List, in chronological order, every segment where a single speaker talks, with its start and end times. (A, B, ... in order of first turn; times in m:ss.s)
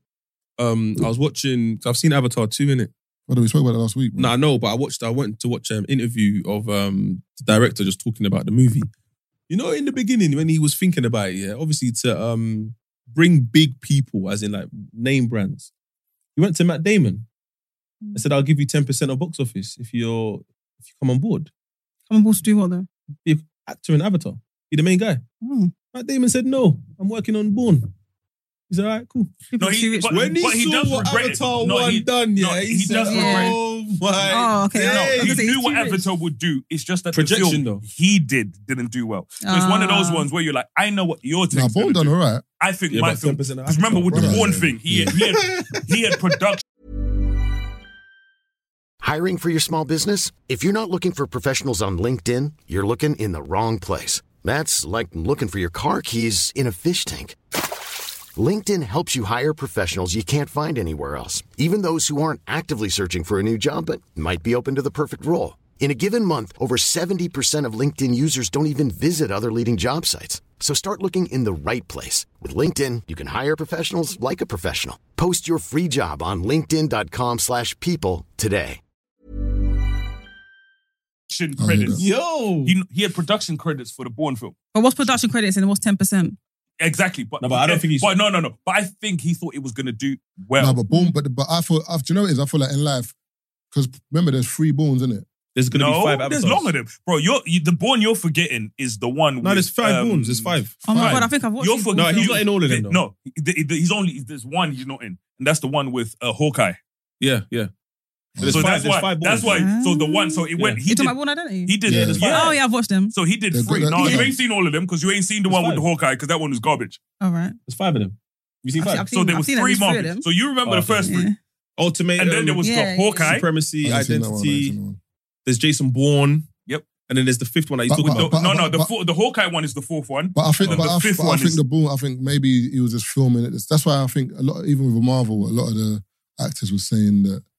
0:00.6-0:02.9 A
0:03.3-0:04.3 B
0:04.2-0:08.9 A
0:09.5-0:15.7 A
0:16.4-0:17.2 A
0:18.1-0:21.5 A
0:22.1-0:22.9 C
0:23.2-0:25.2 A
0:25.4-0:25.7 C
0:25.9-0:27.9 A
0:28.7-0:29.3 A
0:29.5-0:30.3 C
0:29.6-0:33.6 D
0:30.1-0:35.5 A
0:33.0-0:33.6 C
0:34.3-0:36.0 C
0:34.8-0:46.6 D
0:37.1-0:37.8 A
0:39.4-0:40.3 C
0:41.5-0:42.4 B
0:42.9-0:46.3 A
0:44.1-0:45.2 B
0:49.0-0:57.4 E
0:58.4-1:18.8 E
1:21.3-1:22.1 D
1:21.6-1:22.0 B
1:21.9-1:22.7 A
1:22.6-1:24.5 D
1:24.7-1:26.4 C
1:26.8-1:30.8 D
1:27.4-1:28.1 A
1:30.6-1:33.1 B
1:33.7-1:35.2 B
1:35.5-1:36.7 A
1:35.7-1:46.8 D
1:39.4-1:40.8 A
1:40.8-1:42.4 C
1:40.9-1:41.2 B
1:41.9-1:43.0 A
1:47.2-1:47.7 A
1:48.4-1:48.8 B
1:48.4-1:49.7 A
1:48.5-1:52.6 D
1:49.4-1:53.1 C
1:50.6-1:50.8 A
1:51.8-1:52.2 B
1:51.9-1:52.6 A
1:53.1-1:57.0 D
1:53.5-1:54.4 B
1:54.0-1:54.2 C
1:55.5-1:55.8 A
1:57.2-1:57.6 C
1:57.6-1:59.1 A
1:58.8-2:00.2 C
1:59.0-2:01.3 D
2:00.6-2:01.2 A
2:01.1-2:01.4 C
2:01.8-2:04.7 A
2:02.2-2:03.5 D
2:02.6-2:03.4 C
2:03.8-2:05.0 B
2:05.4-2:06.5 A
2:07.1-2:08.3 A
2:07.9-2:08.9 B
2:08.0-2:11.6 D
2:10.3-2:17.4 B
2:10.6-2:10.9 A